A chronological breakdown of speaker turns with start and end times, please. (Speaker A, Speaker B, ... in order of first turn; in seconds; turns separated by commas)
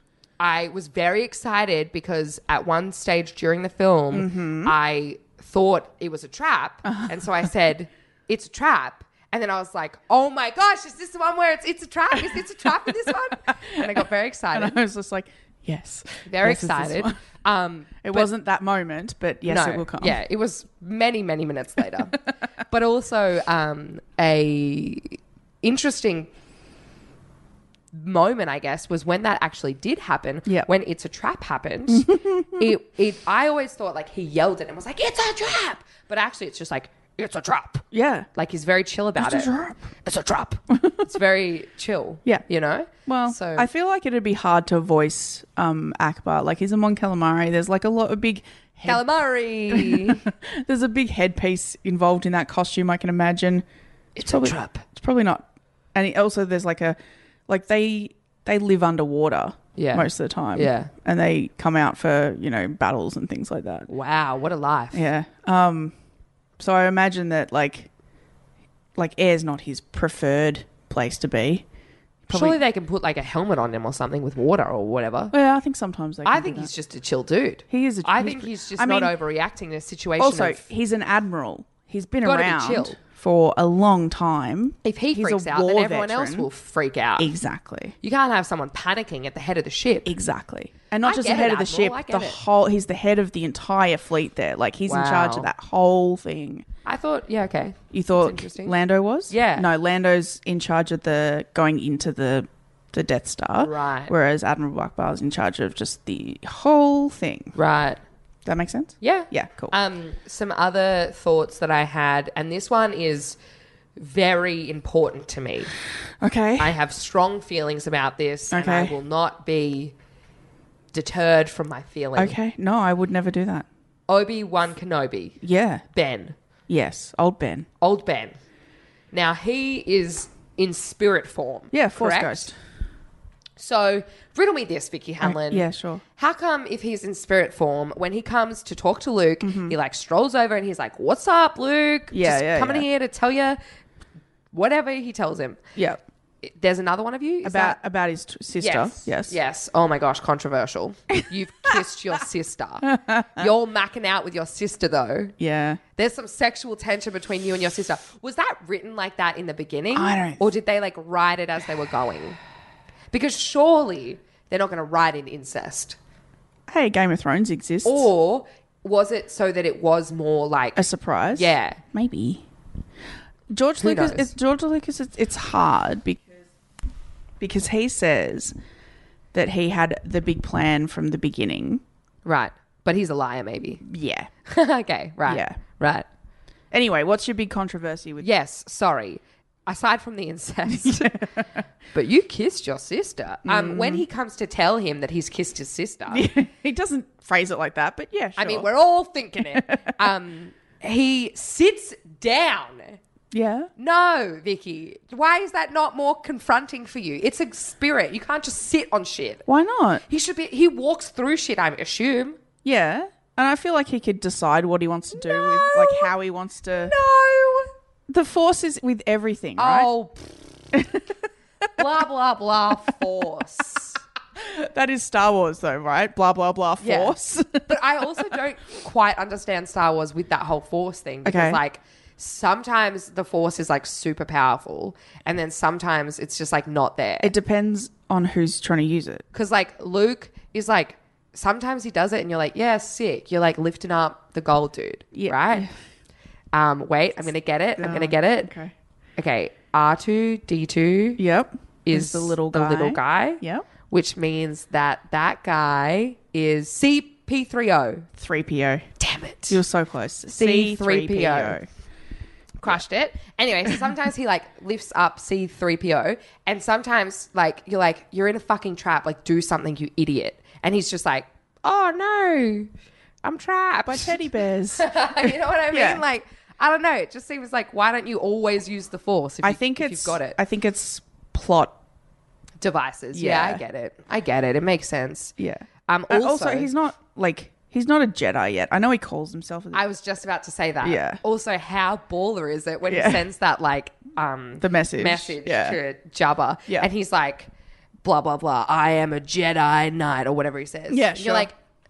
Speaker A: 0.4-14.8, Speaker B: 4.1-4.7, Speaker B: 6.8-7.2, Speaker B: 13.7-17.2, Speaker A: 16.2-18.3, Speaker B: 18.0-20.2, Speaker A: 19.4-26.3, Speaker A: 27.9-39.5, Speaker B: 31.9-32.7, Speaker B: 37.9-38.3, Speaker B: 39.2-39.9, Speaker A: 40.0-43.7, Speaker B: 40.7-41.0, Speaker B: 43.0-49.1, Speaker A: 48.9-50.2, Speaker B: 49.7-53.6, Speaker A: 54.1-54.8, Speaker B: 54.2-63.9, Speaker A: 59.8-60.9, Speaker A: 63.9-65.1, Speaker B: 64.9-65.9, Speaker B: 66.6-67.9, Speaker B: 69.0-71.6, Speaker B: 72.3-72.6, Speaker A: 72.3-75.3, Speaker B: 75.3-76.7, Speaker A: 76.2-80.7, Speaker B: 77.7-79.1, Speaker B: 80.2-86.5, Speaker A: 82.2-83.0, Speaker A: 84.8-87.3, Speaker B: 87.2-87.9, Speaker A: 88.0-90.1, Speaker B: 90.0-96.6, Speaker A: 91.0-92.4, Speaker A: 94.9-95.5, Speaker A: 96.8-98.8, Speaker B: 97.9-107.5, Speaker A: 99.3-99.7, Speaker A: 103.6-104.1, Speaker A: 107.5-108.0, Speaker B: 108.4-109.7, Speaker A: 109.0-113.3, Speaker A: 114.0-115.7, Speaker B: 116.2-116.8, Speaker A: 116.6-119.9, Speaker B: 118.5-119.0, Speaker A: 120.9-122.4, Speaker B: 122.2-123.7, Speaker A: 124.1-125.4, Speaker B: 125.4-125.8, Speaker A: 125.9-126.3, Speaker B: 126.7-127.7, Speaker A: 127.8-128.3, Speaker A: 129.1-132.5, Speaker B: 131.7-132.5, Speaker A: 133.6-143.6, Speaker B: 135.2-136.0, Speaker B: 139.4-139.8, Speaker B: 142.1-142.9, Speaker A: 144.5-145.6, Speaker B: 145.8-146.0, Speaker A: 146.4-147.8, Speaker B: 147.4-149.3, Speaker A: 148.6-155.3, Speaker B: 152.8-153.5, Speaker B: 155.4-155.8, Speaker A: 155.9-162.4, Speaker B: 159.9-160.5, Speaker A: 163.1-166.0, Speaker B: 166.7-168.1, Speaker A: 167.8-171.8, Speaker B: 170.8-172.4, Speaker B: 173.5-176.4, Speaker A: 173.8-174.3, Speaker B: 177.4-178.5, Speaker B: 179.3-181.8, Speaker A: 182.2-183.8, Speaker B: 183.8-184.3, Speaker A: 184.5-186.1, Speaker B: 185.3-185.6, Speaker B: 186.7-188.3, Speaker A: 188.2-191.3, Speaker B: 190.7-191.4, Speaker A: 191.9-196.3, Speaker B: 193.4-194.0, Speaker B: 196.1-198.7, Speaker A: 198.4-203.0, Speaker B: 199.4-199.9, Speaker B: 203.3-203.7, Speaker A: 203.8-209.4, Speaker B: 209.4-210.0, Speaker A: 210.1-212.4, Speaker B: 212.6-216.9, Speaker A: 215.1-216.1, Speaker A: 216.8-217.7, Speaker B: 218.1-219.9, Speaker A: 219.6-220.4, Speaker B: 220.7-221.1, Speaker A: 221.8-224.0, Speaker B: 224.4-227.8, Speaker A: 226.8-237.3, Speaker B: 231.2-231.6, Speaker B: 237.2-239.2, Speaker A: 239.3-245.7, Speaker B: 245.1-245.7, Speaker A: 246.5-248.5, Speaker B: 247.8-248.7, Speaker A: 249.2-251.2, Speaker B: 251.2-253.7, Speaker A: 251.8-258.1, Speaker B: 258.2-258.9, Speaker A: 259.0-259.6, Speaker B: 259.5-261.7, Speaker A: 260.3-261.6, Speaker A: 262.6-272.7, Speaker A: 273.2-274.2, Speaker B: 273.8-276.0, Speaker A: 274.8-280.4, Speaker B: 279.4-281.8, Speaker A: 282.6-285.3, Speaker B: 283.1-283.6, Speaker B: 285.4-289.9, Speaker A: 285.9-286.7, Speaker A: 289.7-297.5, Speaker B: 290.8-291.2, Speaker B: 292.9-293.2, Speaker B: 294.6-295.8, Speaker A: 298.0-301.5, Speaker B: 300.9-301.5